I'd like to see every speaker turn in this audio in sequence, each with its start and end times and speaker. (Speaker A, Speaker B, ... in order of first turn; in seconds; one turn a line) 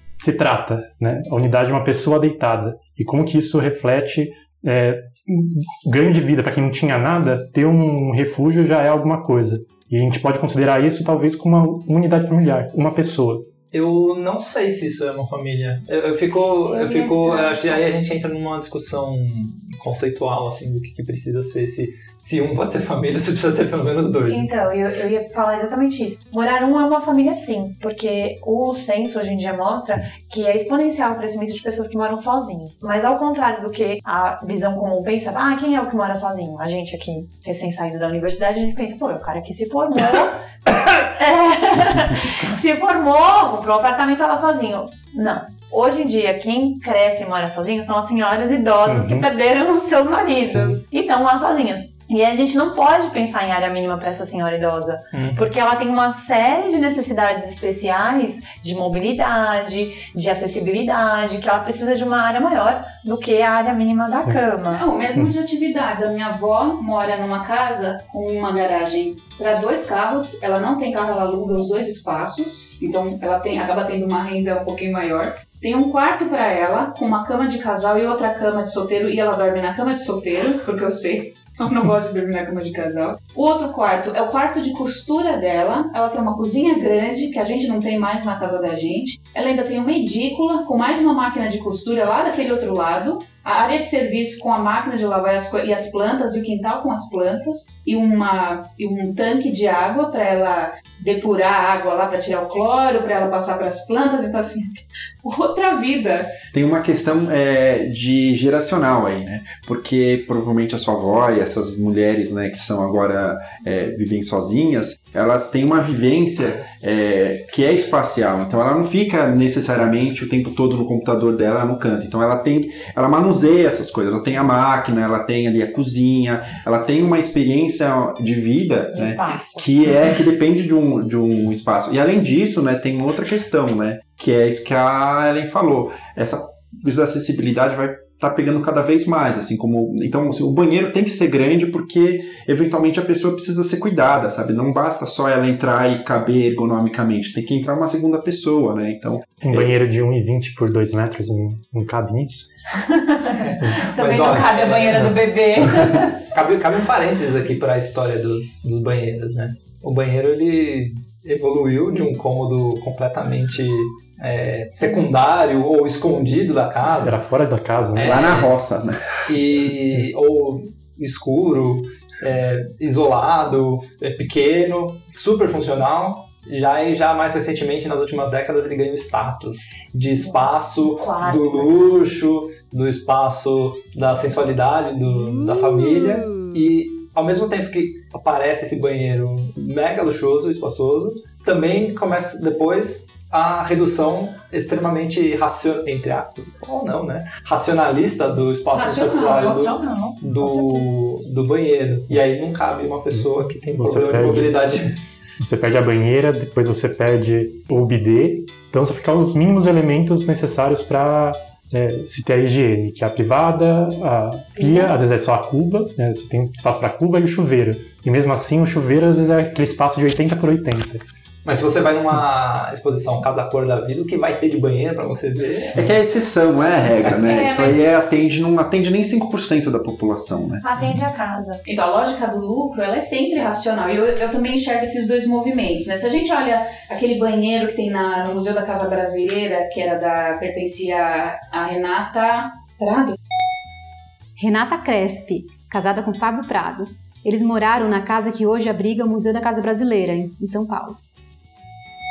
Speaker A: 0.2-13.5
Speaker B: 13.7-24.5
Speaker C: 16.6-17.9
Speaker C: 24.3-64.8
Speaker A: 48.9-49.3
Speaker B: 55.1-55.5
Speaker D: 64.7-106.3
Speaker E: 106.5-149.8
Speaker C: 128.9-129.7
Speaker A: 149.4-152.5
Speaker C: 152.8-156.2
Speaker B: 153.4-155.2
Speaker B: 156.3-167.2
Speaker A: 166.8-168.5
Speaker E: 168.0-169.2
Speaker B: 169.3-204.9
Speaker C: 180.2-181.8
Speaker D: 198.8-199.7
Speaker C: 198.9-200.9
Speaker A: 203.1-204.6
Speaker A: 205.4-221.0
Speaker C: 214.6-214.9
Speaker B: 221.4-225.9
Speaker E: 225.8-230.6
Speaker B: 227.1-227.6
Speaker C: 230.6-231.6
Speaker D: 231.7-243.2
Speaker F: 244.4-251.0